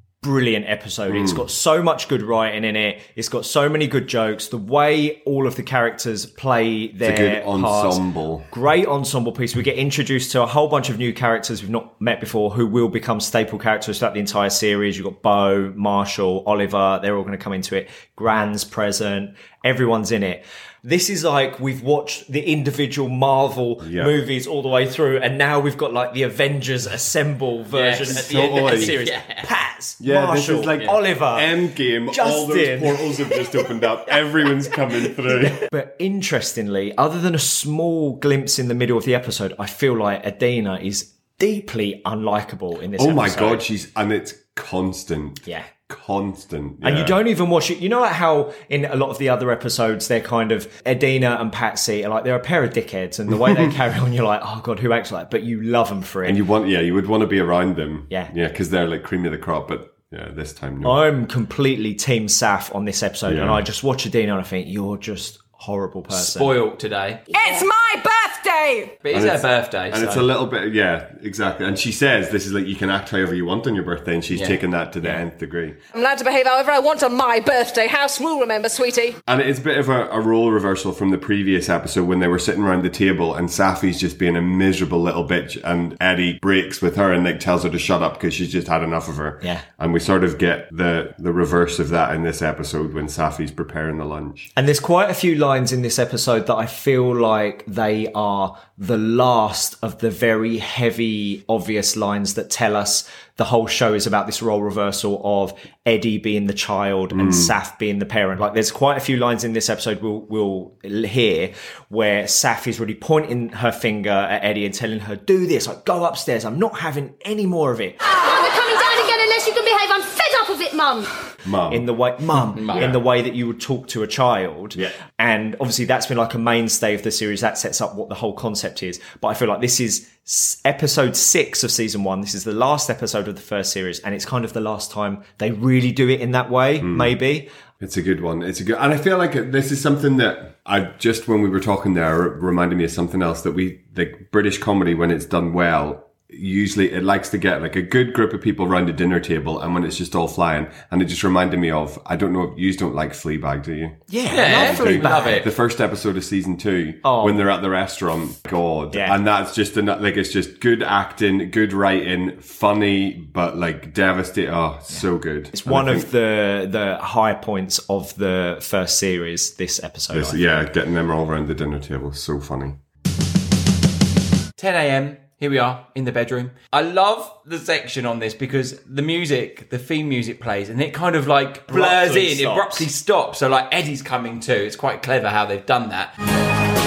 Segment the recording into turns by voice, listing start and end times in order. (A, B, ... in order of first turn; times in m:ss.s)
0:00.2-0:43.6 A
0:01.1-0:01.4 B
0:07.0-0:08.5 B
0:23.8-0:24.1 B
0:27.7-0:29.5 C
0:28.0-0:29.0 B
0:30.0-0:35.7 B
0:43.0-0:47.2 B
0:45.4-0:45.7 A
0:46.8-0:56.4 A
0:56.2-1:01.0 B
1:00.8-1:06.6 A
1:03.3-1:03.6 B
1:06.1-1:07.2 C
1:07.3-1:09.0 D
1:09.0-1:10.3 C
1:09.1-1:15.8 B
1:14.3-1:14.6 C
1:15.9-1:19.2 D
1:19.3-1:34.5 B
1:34.5-1:58.0 A
1:47.1-1:47.5 B
1:58.0-2:01.1 E
2:01.4-2:01.8 B
2:01.7-2:17.5 A
2:02.5-2:02.9 C
2:02.7-2:03.0 B
2:16.8-2:17.1 B
2:17.8-2:46.1 B
2:34.1-2:35.5 A
2:34.3-2:35.5 C
2:37.0-2:37.4 A
2:38.9-2:39.2 A
2:44.9-2:50.4 A
2:50.1-2:52.8 B
2:54.6-3:06.1 C
3:01.7-3:02.9 A